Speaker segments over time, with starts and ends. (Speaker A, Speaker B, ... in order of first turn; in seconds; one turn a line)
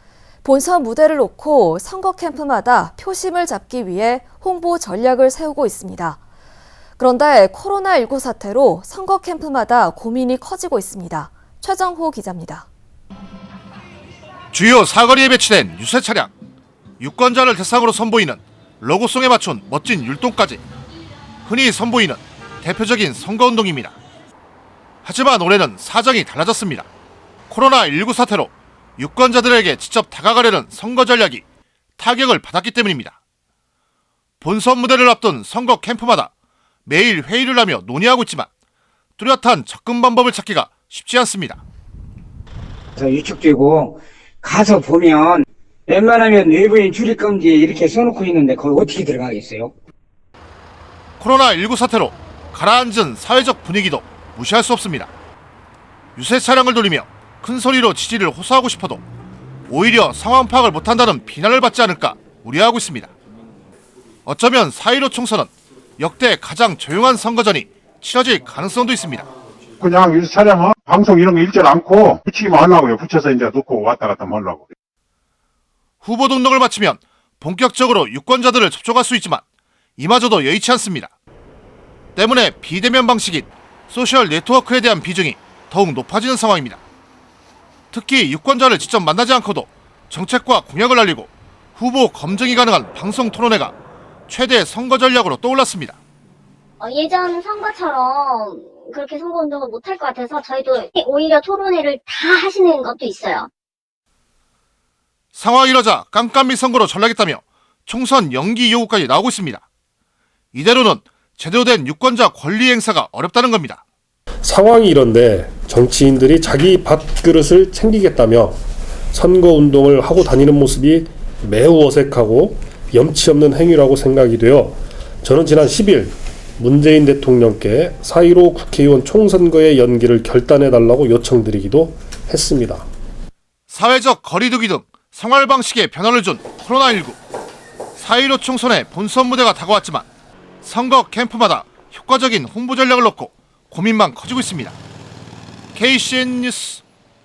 Speaker A: 0.4-6.2
Speaker A: 7.0-12.7
Speaker B: 14.5-16.3
Speaker B: 17.0-20.6
Speaker B: 21.4-23.9
Speaker B: 25.0-26.9
Speaker B: 27.5-31.4
Speaker B: 32.0-33.2
Speaker B: 34.4-36.3
Speaker B: 36.9-38.5
Speaker B: 39.2-41.6
Speaker C: 43.0-49.7
Speaker B: 51.2-55.1
Speaker B: 56.1-59.0
Speaker B: 59.7-63.1
Speaker B: 64.2-69.3
Speaker D: 69.8-74.7
Speaker B: 76.0-79.4
Speaker B: 80.0-81.1
Speaker B: 82.2-86.8
Speaker B: 87.9-93.7
Speaker B: 94.3-96.0
Speaker E: 96.8-103.5
Speaker B: 105.3-109.6
Speaker B: 110.5-113.8
Speaker F: 114.4-118.6
Speaker F: 119.1-132.8
Speaker B: 133.7-137.2
Speaker B: 137.9-140.1
Speaker B: 140.6-144.8
Speaker B: 145.7-146.8